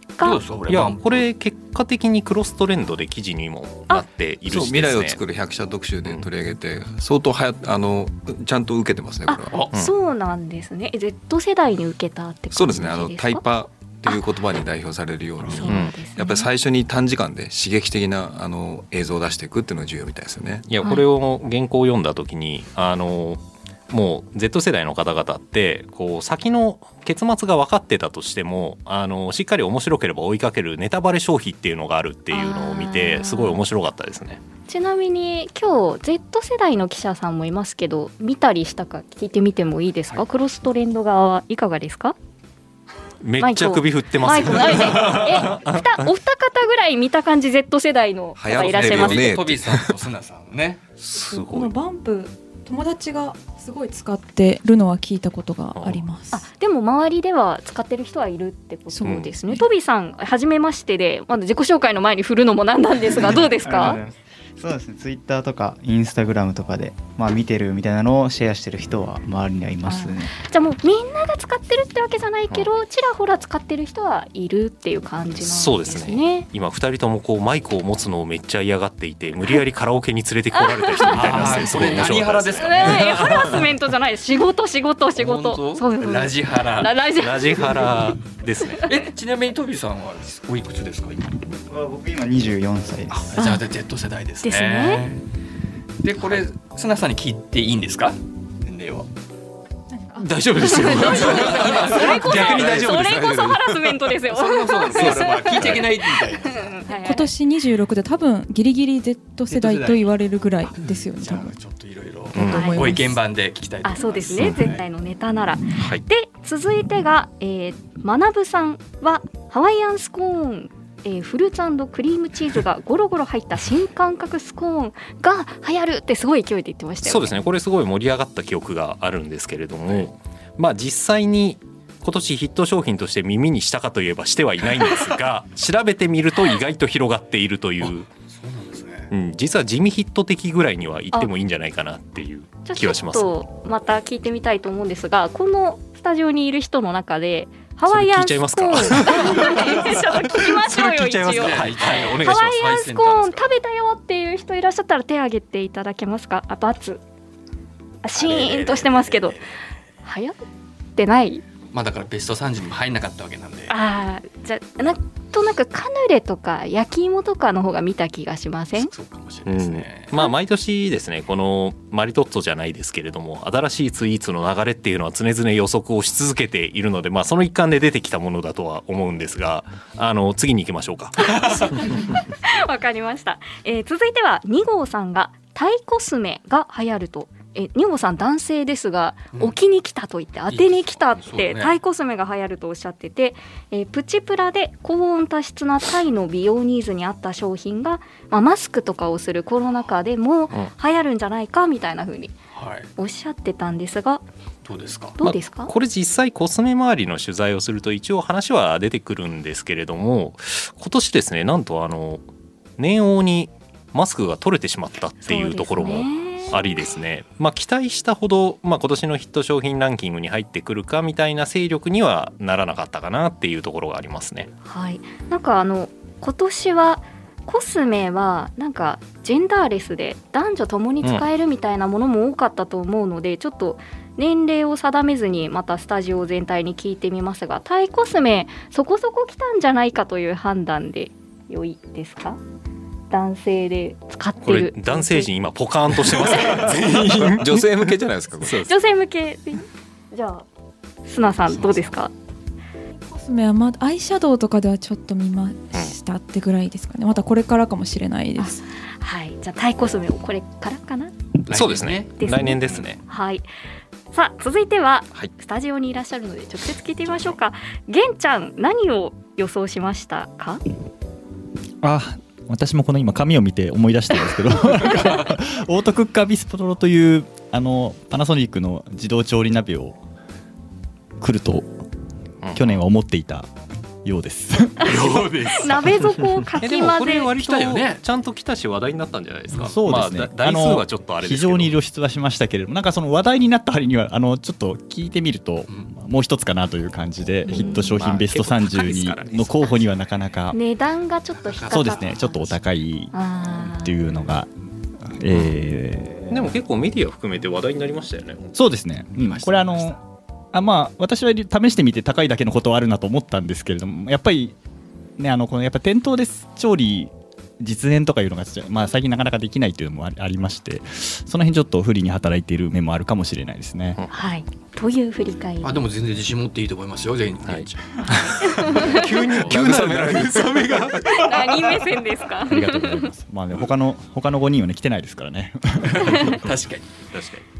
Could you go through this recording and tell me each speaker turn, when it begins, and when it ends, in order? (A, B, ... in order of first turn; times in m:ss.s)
0:00.2-0:01.3 A
0:00.7-0:05.2 B
0:04.5-0:09.6 C
0:09.3-0:13.5 D
0:12.5-0:20.7 C
0:15.5-0:16.5 D
0:15.7-0:16.0 B
0:20.7-0:34.4 B
0:32.3-0:33.6 D
0:34.7-0:42.2 D
0:43.2-0:46.1 B
0:43.4-0:49.2 D
0:48.4-0:50.0 C
0:48.6-0:50.8 A
0:51.0-0:51.7 B
0:51.3-0:56.4 E
0:55.7-0:56.0 B
0:56.3-1:04.0 D
0:58.9-0:59.6 E
0:59.0-0:59.3 B
1:03.1-1:10.3 F
1:09.8-1:16.5 D
1:15.4-1:23.7 B
1:20.6-1:27.9 D
1:21.1-1:23.3 A
1:25.2-1:26.9 A
1:27.2-1:28.9 B
1:28.9-1:31.3 A
1:31.7-1:33.3 F
1:33.1-1:35.2 A
1:33.4-1:33.6 D
1:34.4-1:35.0 D
1:36.0-1:39.1 A
1:39.9-1:40.9 E
1:40.2-1:43.3 B
1:40.7-1:47.3 D
1:41.0-1:42.8 A
1:42.4-1:43.7 C
1:44.3-1:46.8 A
1:45.0-1:45.9 B
1:46.9-1:51.6 E
1:49.5-1:50.1 A
1:50.7-1:54.8 A
1:52.4-1:52.8 B
1:52.4-1:53.2 E
1:52.5-1:53.0 D
1:53.8-2:07.4 D
1:55.8-1:56.0 B
2:07.0-2:18.1 B
2:18.3-2:19.1 A
2:19.1-2:23.3 B
2:22.7-2:37.0 D
2:27.9-2:32.6 B
2:31.3-2:33.5 A
2:38.0-2:39.4 D
2:38.2-2:39.6 A
2:40.0-2:40.4 D
2:41.0-2:41.4 D
2:41.7-2:43.8 A
2:43.7-2:48.9 D
2:48.8-2:50.1 A
2:49.5-3:02.0 B
3:01.2-3:22.4 D
3:10.5-3:11.8 A
3:22.5-3:22.9 A
3:23.0-3:24.2 D
3:24.6-3:25.2 A
3:25.2-3:25.7 D
3:25.2-3:32.2 B
3:32.8-3:44.5 B
3:35.2-3:36.9 D
3:44.6-4:02.4 D
4:03.1-4:05.3 D
4:04.4-4:07.9 B
4:06.2-4:06.6 D
4:06.6-4:08.7 C
4:08.4-4:08.7 B
4:08.7-4:10.5 D
4:11.0-4:12.1 D
4:11.5-4:11.9 A
4:13.1-4:18.6 E
4:18.4-4:21.2 D
4:21.5-4:22.8 A
4:21.5-4:23.0 B
4:22.2-4:23.5 D
4:24.1-4:30.6 D
4:31.8-4:40.0 G
4:35.0-4:35.2 A
4:41.2-4:41.7 G
4:42.4-4:42.8 B
4:42.5-4:43.5 G
4:44.0-4:45.1 G
4:44.8-4:46.1 A
4:44.8-4:47.3 D
4:46.6-4:51.8 B
4:47.3-4:48.0 A
4:49.6-5:00.6 G
4:57.5-4:58.0 D
4:57.5-4:59.8 B
5:00.5-5:02.5 D
5:01.4-5:02.2 A
5:01.7-5:04.5 G
5:03.1-5:04.0 D
5:05.0-5:06.6 G
5:06.3-5:08.5 B
5:08.6-5:10.0 G
5:09.1-5:10.0 A
5:10.5-5:14.6 G
5:15.2-5:24.0 G
5:24.1-5:25.8 D
5:25.6-5:29.6 A
5:28.4-5:29.1 D
5:28.5-5:31.1 B
5:29.4-5:31.2 C
5:31.1-5:33.1 D
5:32.4-5:36.3 G
5:35.8-5:36.9 A
5:37.1-5:37.4 B